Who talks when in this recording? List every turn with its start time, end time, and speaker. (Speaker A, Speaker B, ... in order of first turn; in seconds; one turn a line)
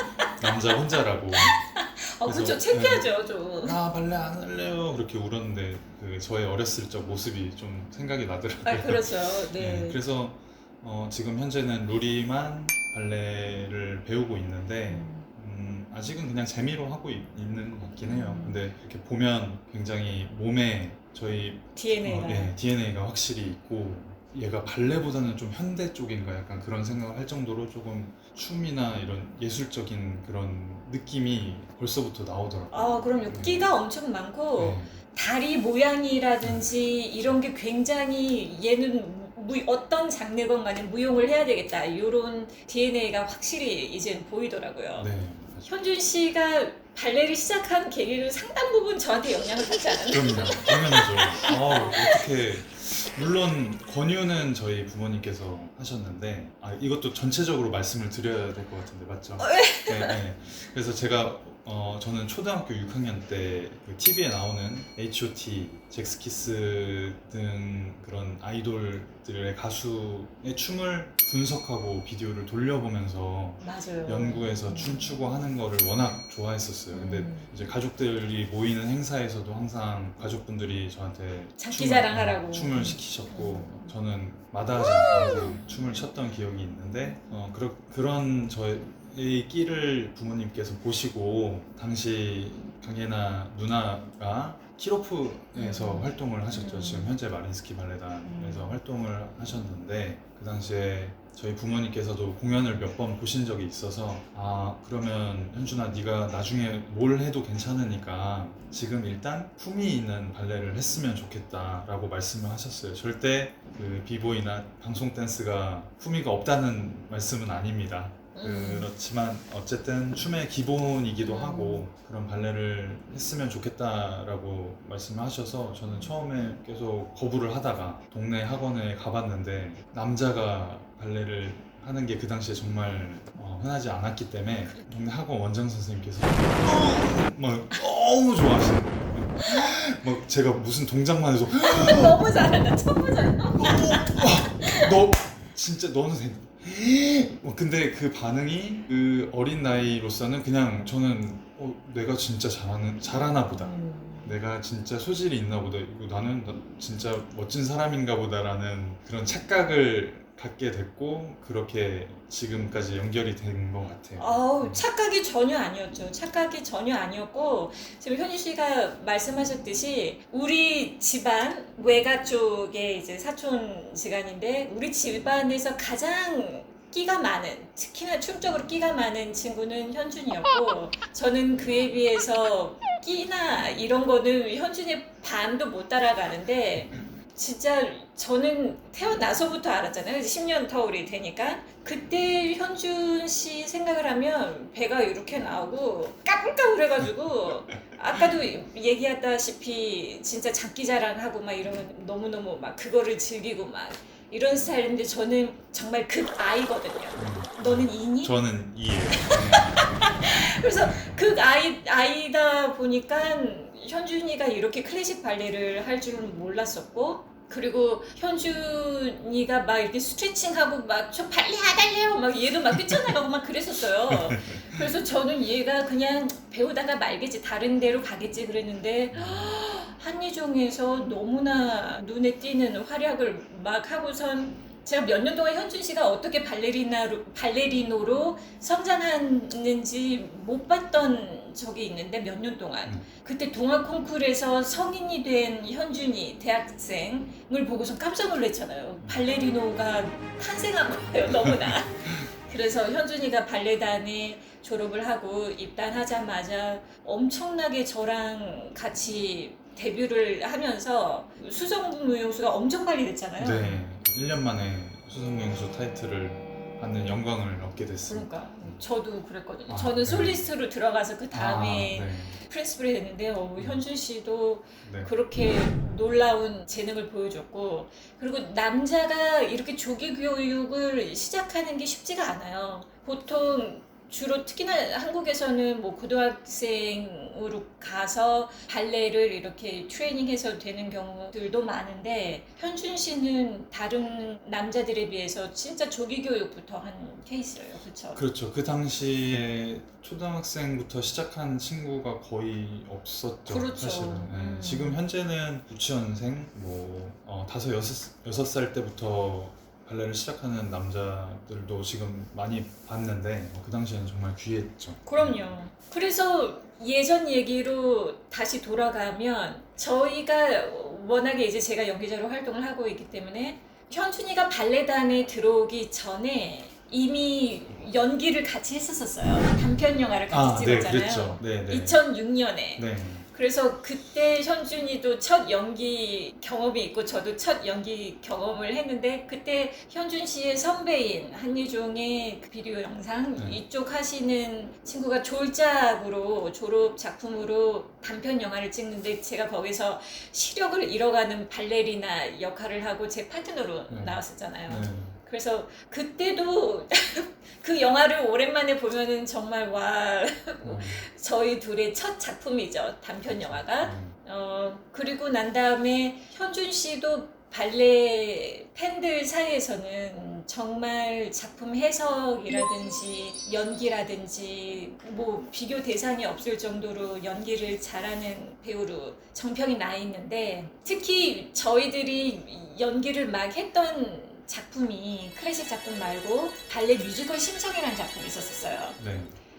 Speaker A: 0.4-1.6
Speaker B: 1.4-3.8
Speaker A: 2.2-33.7
Speaker B: 8.6-10.0
Speaker B: 14.9-15.3
Speaker B: 18.0-18.6
Speaker B: 21.8-22.5
Speaker B: 32.7-45.1
Speaker A: 34.6-35.0
Speaker A: 45.0-45.7
Speaker B: 45.7-52.1
Speaker A: 50.1-142.2
Speaker B: 59.4-60.2
Speaker B: 73.6-75.1
Speaker B: 76.9-77.5
Speaker B: 81.6-83.9
Speaker B: 85.1-85.6
Speaker B: 95.5-97.1
Speaker B: 98.2-98.8
Speaker B: 118.3-118.9
Speaker B: 121.2-121.8
Speaker B: 139.4-139.7
Speaker B: 141.5-144.9
Speaker A: 143.6-164.8
Speaker B: 153.5-154.3
Speaker B: 164.2-208.3
Speaker A: 207.2-210.1
Speaker B: 209.2-263.8
Speaker A: 210.8-211.2
Speaker A: 224.1-224.8
Speaker A: 229.1-229.6
Speaker A: 249.0-249.2
Speaker A: 251.4-251.7
Speaker A: 263.4-268.8
Speaker B: 268.1-298.2
Speaker A: 269.7-270.5
Speaker A: 271.3-272.4
Speaker A: 273.6-273.8
Speaker A: 274.8-275.1
Speaker A: 298.1-315.5
Speaker B: 303.5-305.0
Speaker B: 315.1-389.0
Speaker A: 330.3-332.0
Speaker A: 332.8-333.3
Speaker A: 353.9-355.1
Speaker A: 360.6-361.0
Speaker A: 363.3-364.2
Speaker A: 389.0-389.3